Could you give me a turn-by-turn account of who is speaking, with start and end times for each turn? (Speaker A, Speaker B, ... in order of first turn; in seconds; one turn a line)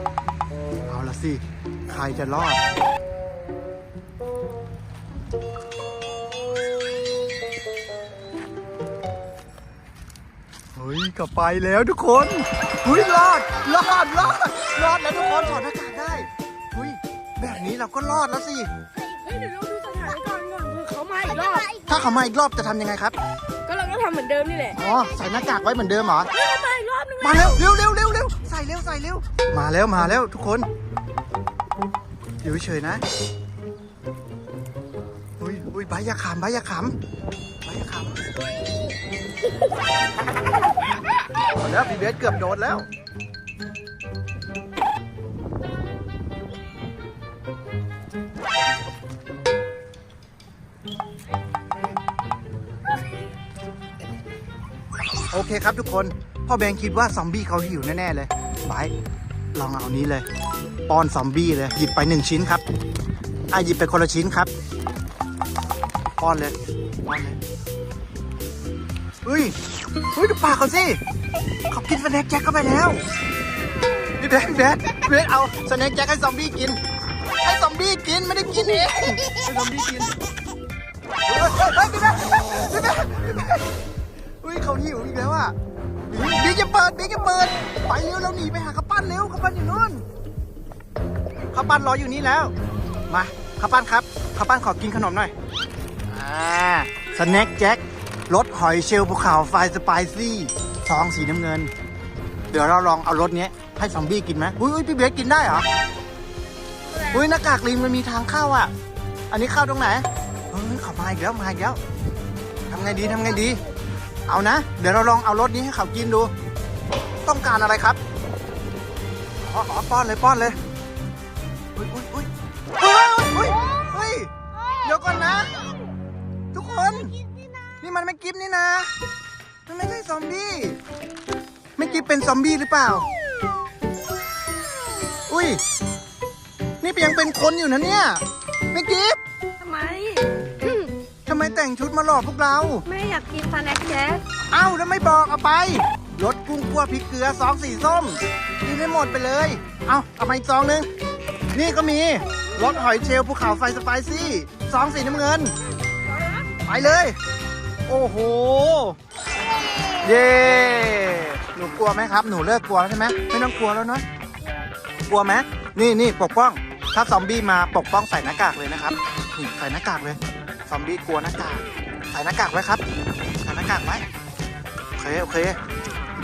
Speaker A: 0.9-2.6
Speaker A: 10.8-18.7
Speaker B: 19.0-21.8
Speaker A: 21.8-23.1
Speaker B: 23.7-24.8
Speaker A: 24.8-26.3
Speaker B: 26.4-27.6
Speaker A: 27.2-30.7
Speaker A: 32.4-33.0
Speaker A: 35.4-36.9
Speaker A: 37.6-38.2
Speaker A: 41.6-42.9
Speaker A: 55.3-58.9
Speaker A: 59.5-60.2
Speaker A: 60.9-62.6
Speaker A: 63.5-64.5
Speaker A: 66.2-67.4
Speaker A: 69.2-69.6
Speaker A: 70.1-71.0
Speaker A: 71.7-73.0
Speaker A: 74.2-76.8
Speaker A: 77.4-80.1
Speaker A: 81.3-83.7
Speaker A: 84.4-85.5
Speaker A: 86.1-90.0
Speaker A: 91.5-92.5
Speaker A: 93.1-95.3
Speaker A: 96.1-101.7
Speaker A: 102.5-105.7
Speaker B: 106.9-107.2
Speaker A: 107.1-108.7
Speaker A: 109.3-111.8
Speaker A: 112.7-113.6
Speaker A: 114.3-116.3
Speaker A: 117.2-118.0
Speaker A: 119.4-120.6
Speaker A: 121.8-124.3
Speaker A: 124.8-125.6
Speaker A: 126.5-127.1
Speaker A: 127.8-128.9
Speaker A: 129.7-130.8
Speaker A: 131.8-133.1
Speaker A: 135.3-135.6
Speaker A: 136.8-139.2
Speaker B: 139.6-140.9
Speaker A: 141.3-142.8
Speaker B: 142.9-144.2
Speaker A: 144.5-150.9
Speaker A: 151.5-155.6
Speaker B: 156.1-156.5
Speaker A: 156.6-157.2
Speaker A: 157.9-159.0
Speaker A: 160.0-164.0
Speaker A: 165.1-172.8
Speaker A: 173.4-174.1
Speaker A: 175.0-175.6